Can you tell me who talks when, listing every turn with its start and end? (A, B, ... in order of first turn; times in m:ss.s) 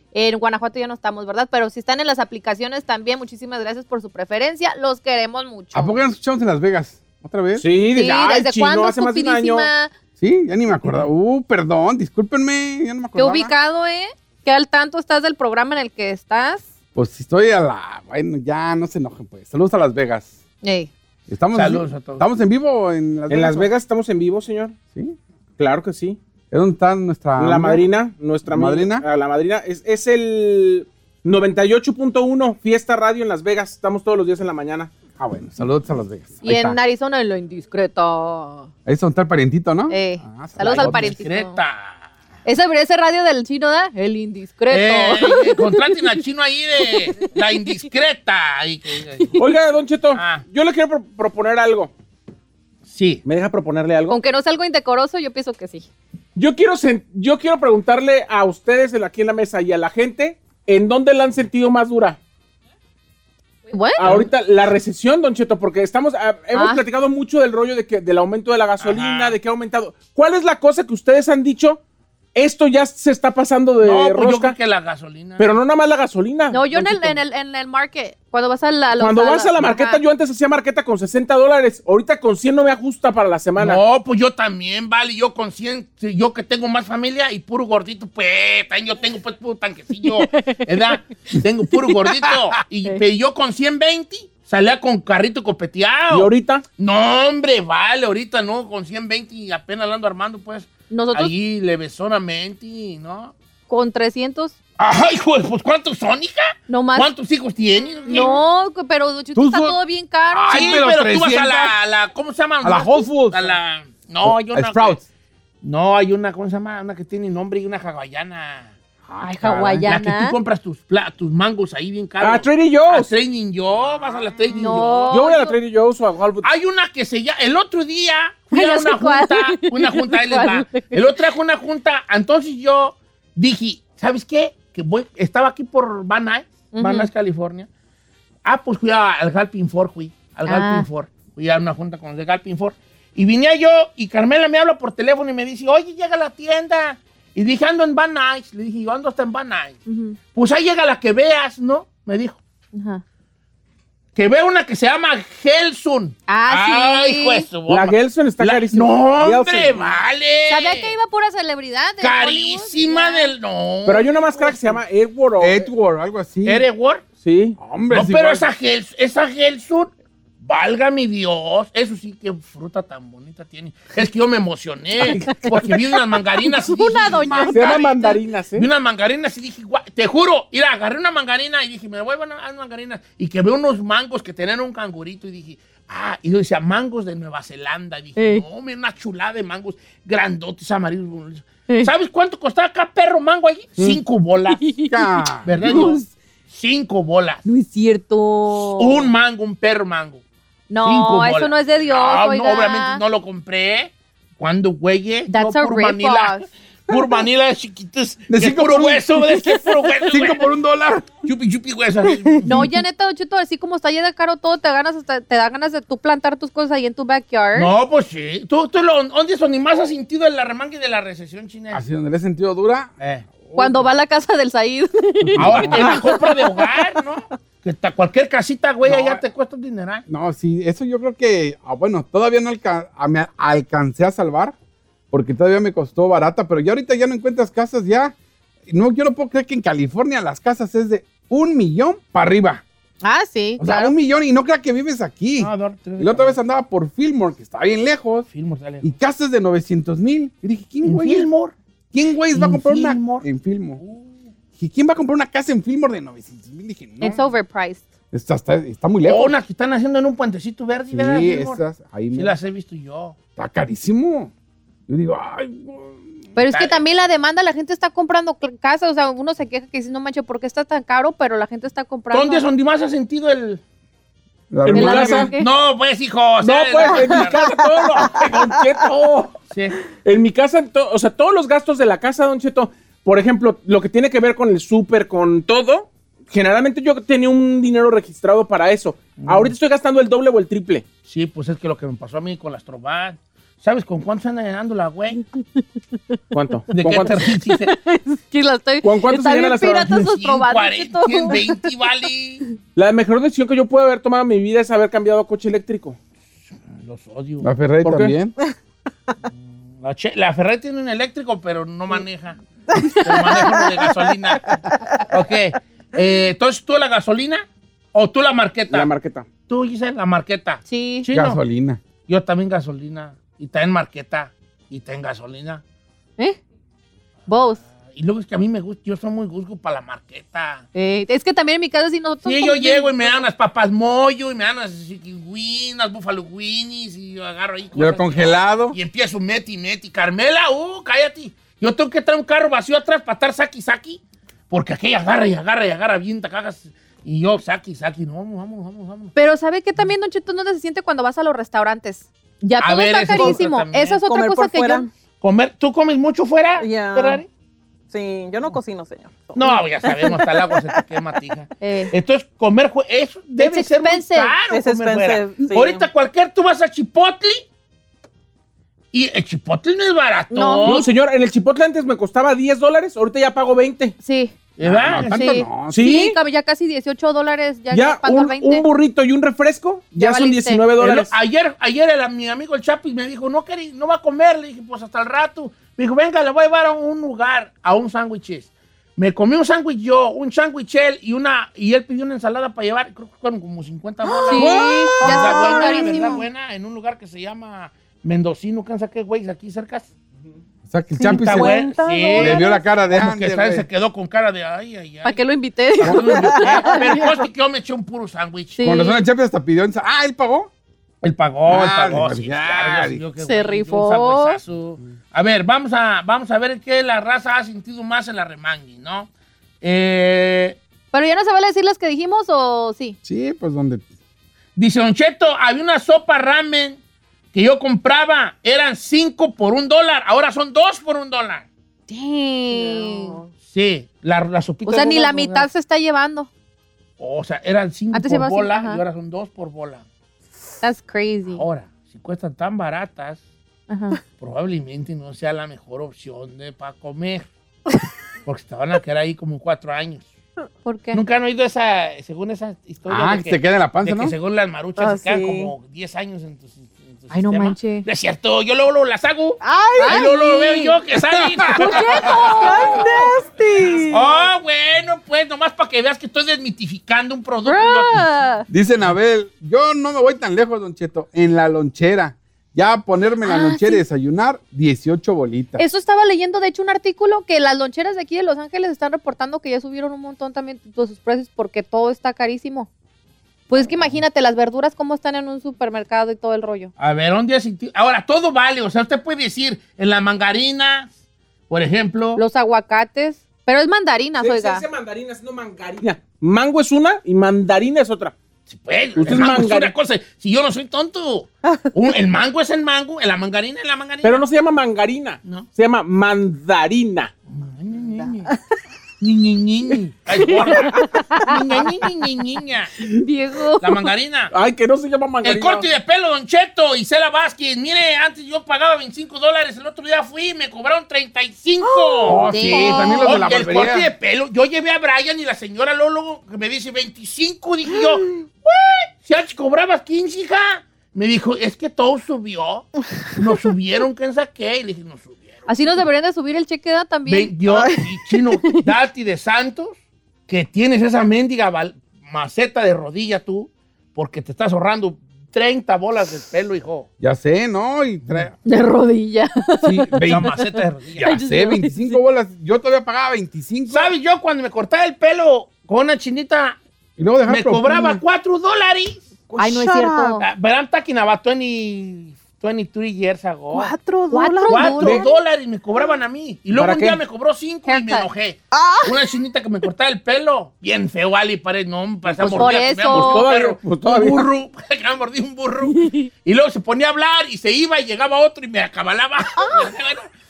0:00.1-0:06.0 A
0:05.7-0:07.7 B
0:07.6-0:09.7 C
0:07.9-0:09.9 A
0:10.2-0:13.5 B
0:13.2-0:16.7 A
0:17.0-0:20.3 B
0:20.6-0:20.9 A
0:21.3-0:23.7 B
0:21.5-0:22.3 D
0:23.3-0:24.8 C
0:25.6-0:26.2 C
0:26.5-0:27.9 B
0:27.4-0:34.9 C
0:28.5-0:29.0 B
0:35.2-0:36.8 B
0:36.4-0:38.7 A
0:38.9-0:41.2 B
0:39.9-0:41.6 A
0:40.6-0:42.0 D
0:42.4-0:45.8 A
0:44.7-0:49.4 D
0:49.4-0:51.9 C
0:50.1-0:50.4 D
0:52.9-0:53.2 D
0:53.2-0:54.2 C
0:54.1-0:55.9 A
0:56.4-1:02.2 C
1:03.7-1:04.1 A
1:04.0-1:11.8 C
1:04.0-1:04.3 D
1:06.5-1:06.8 A
1:08.8-1:09.4 D
1:12.4-1:14.6 C
1:13.8-1:15.5 D
1:15.4-1:17.2 C
1:16.5-1:20.0 A
1:19.0-1:23.8 C
1:23.6-1:43.3 D
1:36.1-1:36.6 C
1:40.9-1:41.3 A
1:43.7-1:44.6 A
1:44.8-1:48.4 D
1:46.7-1:47.1 A
1:48.1-1:50.8 A
1:49.4-1:49.8 B
1:50.3-1:51.8 B
1:50.5-1:55.0 D
1:52.6-1:53.6 B
1:54.2-1:55.0 B
1:55.6-1:58.7 D
1:59.1-1:59.9 B
1:59.2-2:00.4 A
1:59.9-2:05.2 D
2:02.2-2:03.1 C
2:04.5-2:05.6 A
2:05.1-2:06.5 C
2:06.4-2:17.7 D
2:08.5-2:11.0 A
2:16.7-2:17.1 A
2:18.4-2:29.8 D
2:20.5-2:20.9 A
2:29.9-2:30.2 A
2:30.4-2:32.4 D
2:32.7-2:33.0 A
2:34.2-2:41.0 D
2:36.3-2:37.5 A
2:37.7-2:40.0 C
2:40.5-2:43.3 A
2:42.0-2:44.8 D
2:43.9-2:45.7 C
2:45.4-2:46.7 B
2:46.4-2:47.0 D
2:47.2-2:47.6 C
2:47.6-2:48.5 B
2:47.9-2:49.9 D
2:50.4-2:57.9 D
2:55.0-2:55.5 C
2:55.1-2:55.5 A
2:56.4-2:58.2 A
2:57.2-2:57.8 B
2:57.5-2:58.7 C
2:58.6-3:14.6 D
3:08.2-3:08.4 A
3:14.5-3:16.1 A
3:14.8-3:15.9 B
3:15.4-3:17.4 D
3:17.4-3:19.1 A
3:18.8-3:20.2 D
3:20.7-3:23.0 A
3:20.8-3:30.5 D
3:25.3-3:26.5 A
3:28.3-3:29.4 B
3:30.1-3:31.1 B
3:31.2-3:32.7 D
3:32.4-3:37.7 A
3:37.6-3:41.8 D
3:41.7-3:42.9 B
3:43.0-3:43.3 D
3:43.4-3:43.9 B
3:43.6-3:46.4 A
3:45.2-3:46.0 B
3:45.4-3:50.0 D
3:48.8-3:49.2 B
3:50.1-3:54.6 B
3:55.1-3:58.2 B
3:58.7-4:02.6 B
4:03.0-4:03.9 A
4:03.6-4:08.3 B
4:05.4-4:06.4 D
4:08.3-4:08.9 D
4:08.8-4:11.3 B
4:10.8-4:11.5 D
4:11.9-4:13.8 B
4:12.3-4:13.3 D
4:13.8-4:14.1 D
4:14.6-4:17.2 B
4:17.0-4:17.8 A
4:18.1-4:19.3 B
4:19.0-4:21.6 D
4:20.9-4:22.4 B
4:22.1-4:23.2 D
4:23.4-4:24.3 B
4:24.9-4:26.0 B
4:26.4-4:32.4 A
4:26.5-4:26.8 D
4:32.1-4:33.6 D
4:34.5-4:35.3 B
4:34.6-4:35.3 C
4:34.7-4:35.5 A
4:34.9-4:37.4 D
4:36.4-4:39.4 C
4:39.5-4:39.8 D
4:40.0-4:50.9 C
4:49.2-4:49.6 D
4:51.1-4:55.2 D
4:56.3-4:57.3 C
4:56.7-4:57.8 D
4:57.6-5:01.5 A
4:58.8-5:00.0 C
4:59.9-5:02.4 D
5:02.8-5:06.0 C
5:06.8-5:07.5 D
5:07.4-5:08.4 B
5:07.8-5:08.2 C
5:09.8-5:12.4 D
5:12.8-5:13.6 E
5:13.0-5:18.9 D
5:18.7-5:19.3 C
5:19.5-5:21.4 D
5:20.7-5:21.1 A
5:21.1-5:21.8 B
5:22.1-5:25.6 D
5:27.3-5:27.6 A
5:27.9-5:30.7 D
5:30.8-5:33.2 A
5:32.2-5:49.1 D
5:37.8-5:38.8 B
5:49.2-5:54.9 A
5:52.6-5:54.0 D
5:53.1-5:53.4 E
5:54.1-5:54.9 E
5:55.2-5:57.3 D
5:56.6-5:57.2 E
5:57.9-6:00.8 E
5:59.4-6:07.5 D
6:01.6-6:01.9 A
6:03.4-6:04.4 A
6:04.5-6:05.9 E
6:08.9-6:10.9 D
6:10.3-6:10.9 A
6:10.6-6:14.0 C
6:14.0-6:14.4 A
6:14.6-6:15.3 D
6:14.6-6:15.9 B
6:15.0-6:18.7 A
6:15.7-6:16.2 C
6:17.7-6:21.1 C
6:20.0-6:20.6 A
6:20.8-6:39.9 D
6:34.2-6:36.2 E
6:34.3-6:36.2 A
6:40.7-6:43.7 B
6:41.0-6:42.6 E
6:41.0-6:45.2 D
6:45.0-6:47.1 A
6:45.8-6:48.6 D
6:45.8-6:46.2 B
6:46.2-6:47.0 E
6:48.6-6:49.0 A
6:48.6-6:50.5 B
6:51.0-6:59.1 D
6:51.5-6:53.0 B
6:53.2-6:54.4 A
6:59.6-7:00.6 D
7:00.9-7:03.0 A
7:03.0-7:03.8 B
7:04.6-7:06.8 D
7:07.3-7:11.5 D
7:11.9-7:13.2 A
7:12.5-7:13.3 E
7:13.4-7:15.5 D
7:14.6-7:16.3 A
7:17.0-7:19.8 D
7:17.9-7:18.8 A
7:20.6-7:21.4 A
7:21.4-7:23.2 D
7:23.7-7:24.0 A
7:24.2-7:27.3 D
7:28.2-7:30.1 D
7:30.6-7:31.0 A
7:30.9-7:42.8 D
7:32.9-7:34.1 B
7:34.8-7:35.5 E
7:37.1-7:37.9 A
7:39.4-7:40.1 E
7:39.8-7:40.8 A
7:41.2-7:42.7 B
7:41.6-7:42.8 A
7:41.8-7:44.2 E
7:43.8-7:48.0 D
7:47.5-7:48.5 A
7:48.5-7:55.6 B
7:53.2-7:53.8 A
7:55.6-8:02.7 A
8:03.5-8:06.7 A
8:06.8-8:10.9 D
8:11.5-8:12.2 D
8:12.2-8:14.6 A
8:14.2-8:18.1 C
8:18.5-8:24.2 D
8:19.0-8:19.7 C
8:24.0-8:27.1 C
8:27.3-8:28.3 D
8:29.0-8:32.8 D
8:30.5-8:31.3 A
8:32.9-8:33.9 A
8:33.6-8:34.3 D
8:34.3-8:35.7 C
8:35.2-8:55.5 D
8:41.7-8:43.0 E
8:42.0-8:43.9 B
8:42.3-8:43.1 A
8:55.5-8:57.3 A
8:57.1-9:06.9 D
8:57.5-8:57.9 E
9:07.0-9:08.3 B
9:08.4-9:10.4 A
9:09.6-9:10.4 B
9:10.0-9:11.1 D
9:11.0-9:13.9 B
9:11.0-9:12.0 A
9:13.7-9:16.6 D
9:17.0-9:18.0 B
9:17.3-9:19.1 D
9:19.3-9:20.2 E
9:19.4-9:20.3 A
9:20.2-9:23.7 D
9:23.5-9:25.1 E
9:24.1-9:25.0 A
9:24.5-9:40.1 D
9:26.5-9:27.0 C
9:27.7-9:28.1 A
9:28.5-9:29.0 E
9:32.1-9:34.3 C
9:32.2-9:33.3 A
9:35.7-9:36.1 A